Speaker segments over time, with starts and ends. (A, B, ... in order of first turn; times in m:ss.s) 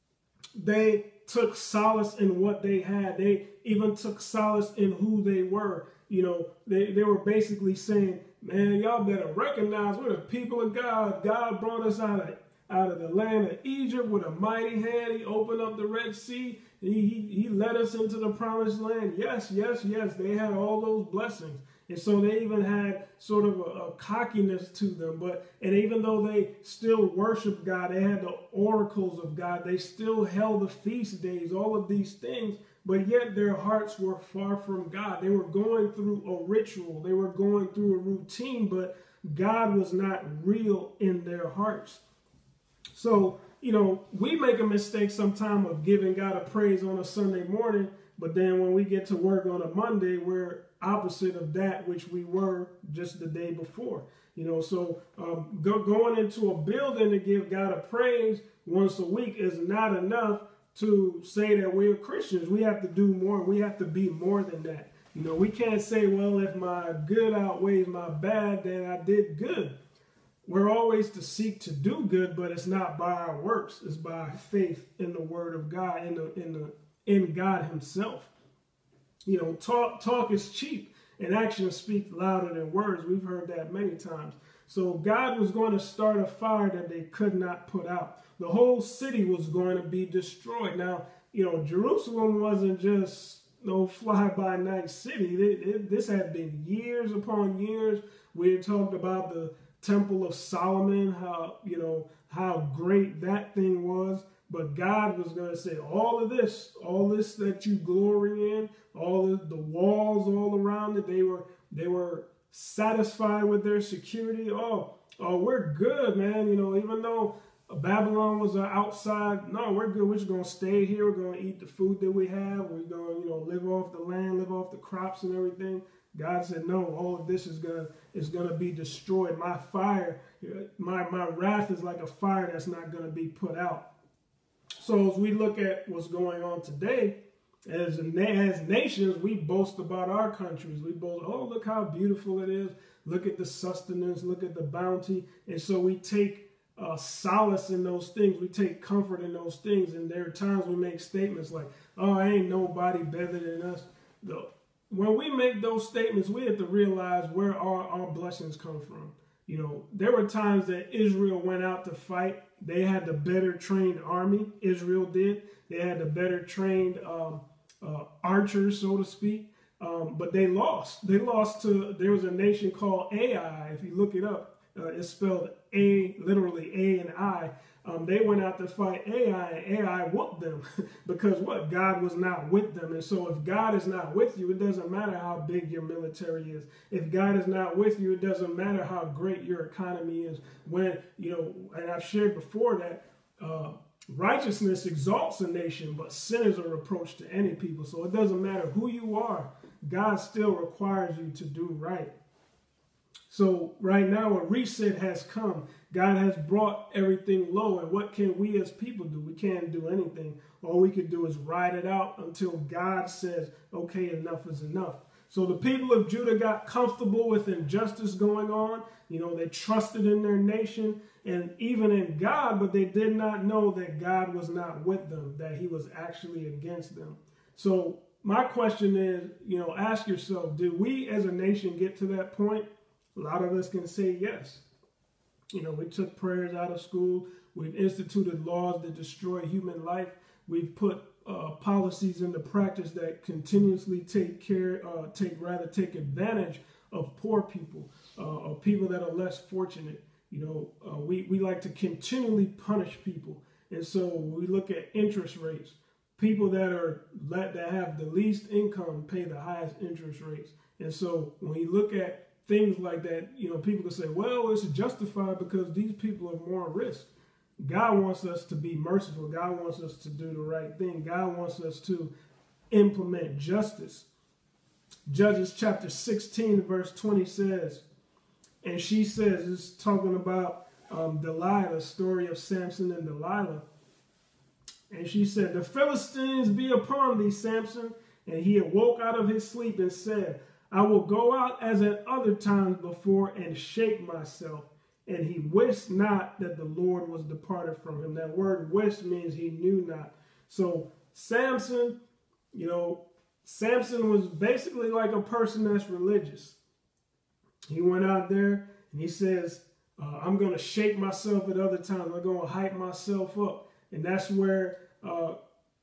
0:00.6-0:42.0 A
0:42.9-1:09.8 A
1:10.4-1:18.3 A
1:19.2-2:13.9 A
2:14.8-3:22.1 A
3:23.3-3:54.6 A
3:55.5-4:27.1 A
4:27.6-4:32.1 A
4:32.7-4:34.1 A
4:35.1-4:37.8 A
4:38.6-4:43.6 A
4:44.9-5:02.0 A
5:02.5-5:06.6 A
5:07.7-5:15.3 A